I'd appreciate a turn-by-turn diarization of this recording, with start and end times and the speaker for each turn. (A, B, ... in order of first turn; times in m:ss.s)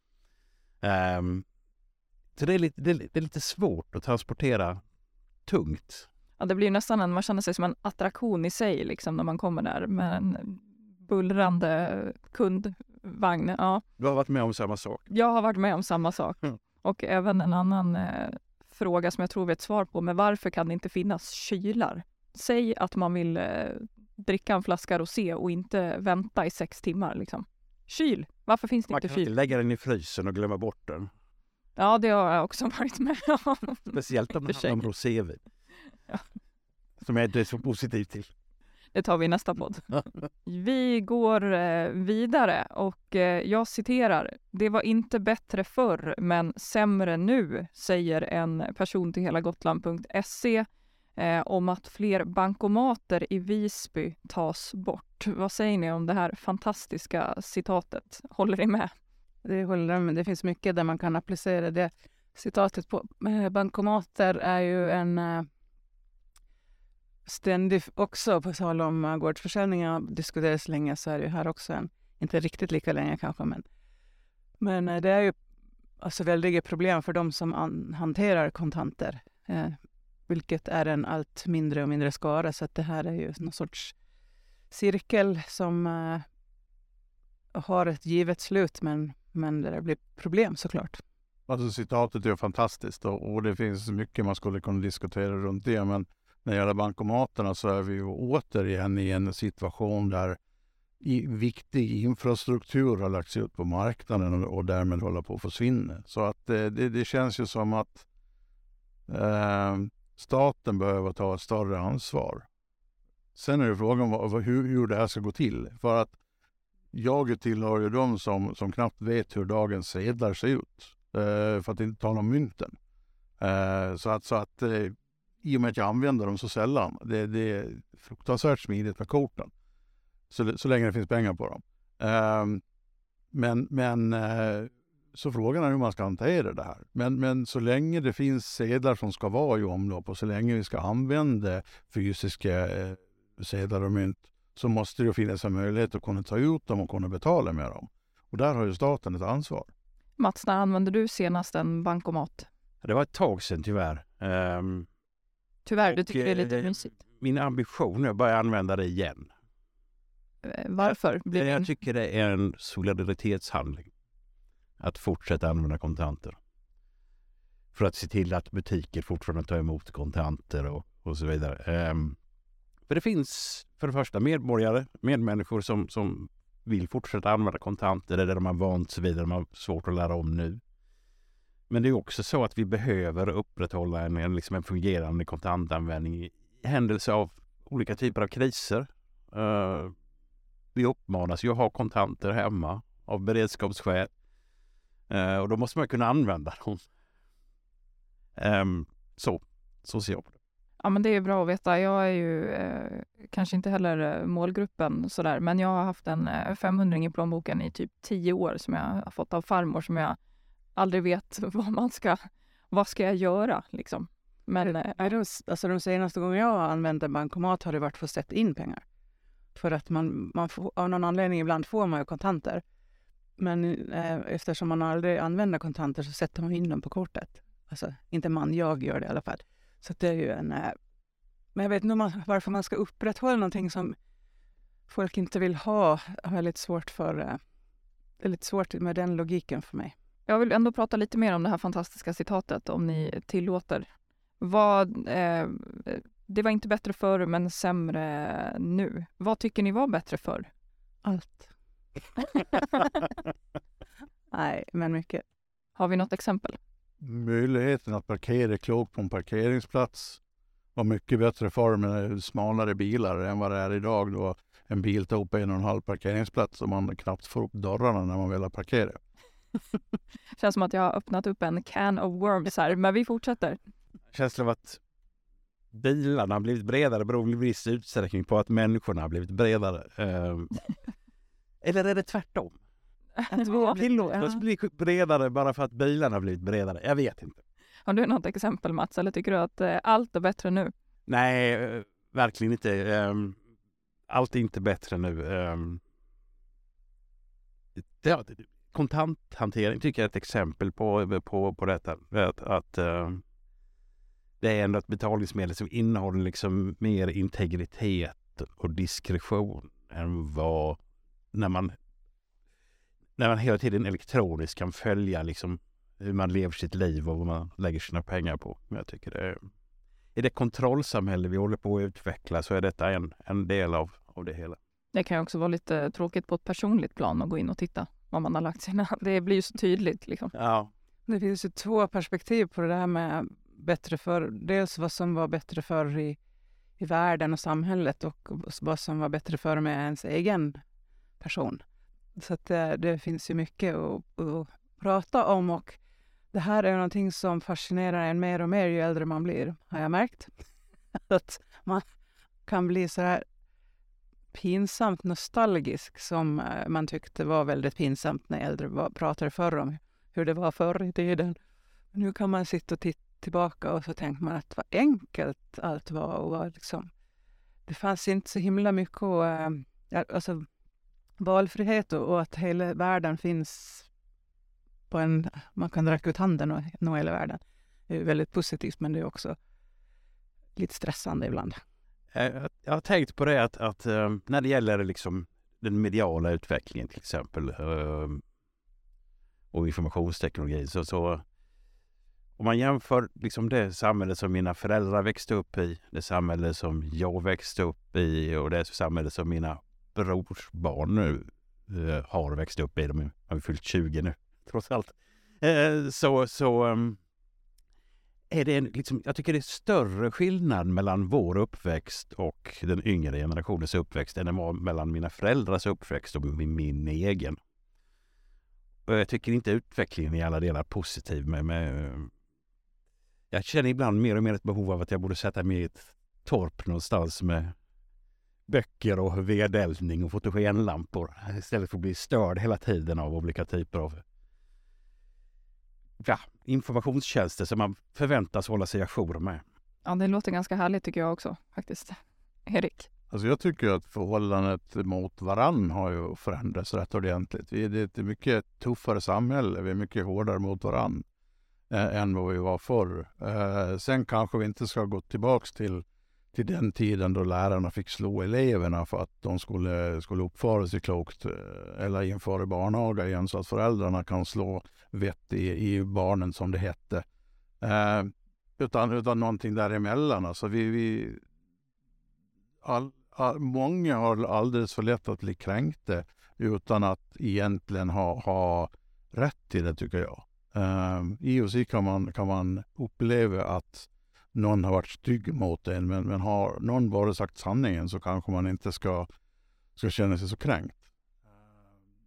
0:00.8-0:01.4 A
0:02.4-0:04.8 A
0:05.5-0:06.1 A
0:06.4-0:13.8 B
0:14.0-0:15.1 A
0:15.1-0:29.3 B
0:28.9-0:31.1 A
0:31.8-0:34.8 B
0:33.9-0:35.4 A
0:37.0-0:38.3 A
0:38.9-0:50.7 B
0:51.2-0:58.9 B
0:59.4-1:05.5 C
1:07.3-1:13.6 C
1:14.6-1:15.4 C
1:16.0-1:19.8 C
1:20.3-1:24.0 C
1:24.7-1:26.2 C
1:27.5-1:31.0 C
1:31.5-1:40.4 D
1:41.0-1:48.1 D
1:49.1-1:52.5 D
1:53.4-1:56.2 D
1:56.9-2:02.8 D
2:03.4-2:09.5 D
2:10.3-2:12.6 D
2:13.3-2:29.7 D
2:30.2-2:32.5 B
2:32.8-2:34.9 A
2:35.7-2:36.9 B
2:35.9-2:39.3 A
2:40.4-2:41.7 B
2:40.8-2:43.9 A
2:44.8-2:46.4 A
2:47.7-2:52.2 A
2:52.9-3:00.6 A
3:01.7-3:09.9 A
3:10.8-3:14.1 A
3:15.1-3:16.8 A
3:18.4-3:20.4 A
3:20.8-3:30.2 B
3:30.8-3:35.0 B
3:34.6-3:38.8 C
3:39.6-3:42.6 C
3:43.4-3:50.7 C
3:51.6-3:54.0 C
3:54.9-3:57.4 C
3:58.2-3:59.9 C
4:00.3-4:03.9 B
4:04.4-4:10.5 B
4:11.0-4:11.5 C
4:12.1-4:12.7 C
4:14.3-4:15.2 C
4:15.8-4:16.6 B
4:17.0-4:20.2 D
4:20.8-4:29.0 D
4:30.4-4:33.6 B
4:34.1-4:34.8 A
4:35.7-4:40.7 A
4:41.6-4:42.6 A
4:43.3-4:43.8 B
4:43.3-4:44.3 C
4:43.6-4:47.4 A
4:47.9-4:50.7 B
4:51.1-4:53.4 A
4:54.1-4:55.8 A
4:57.8-5:03.2 A
5:04.4-5:10.8 A
5:11.3-5:11.8 A
5:13.2-5:19.4 A
5:20.2-5:24.6 A
5:24.9-5:30.3 B
5:30.3-5:30.7 A
5:31.1-5:36.2 C
5:36.8-5:40.6 C
5:41.2-5:41.6 C
5:42.2-5:45.8 C
5:46.3-5:50.3 C
5:51.1-5:51.8 C
5:52.5-5:53.2 C
5:54.3-6:01.4 C
6:01.9-6:06.9 C
6:07.7-6:10.4 C
6:11.2-6:13.9 C
6:14.9-6:19.4 C
6:20.6-6:21.6 C
6:22.1-6:28.2 A
6:29.5-6:31.2 A
6:32.4-6:47.0 A
6:48.3-6:57.4 A
6:58.9-7:02.1 A
7:03.3-7:07.5 A
7:08.5-7:14.0 A
7:16.0-7:19.4 A
7:19.8-7:22.9 B
7:23.1-7:31.0 D
7:31.7-7:47.0 D
7:47.6-7:51.2 D
7:52.6-8:09.1 D
8:09.8-8:10.8 D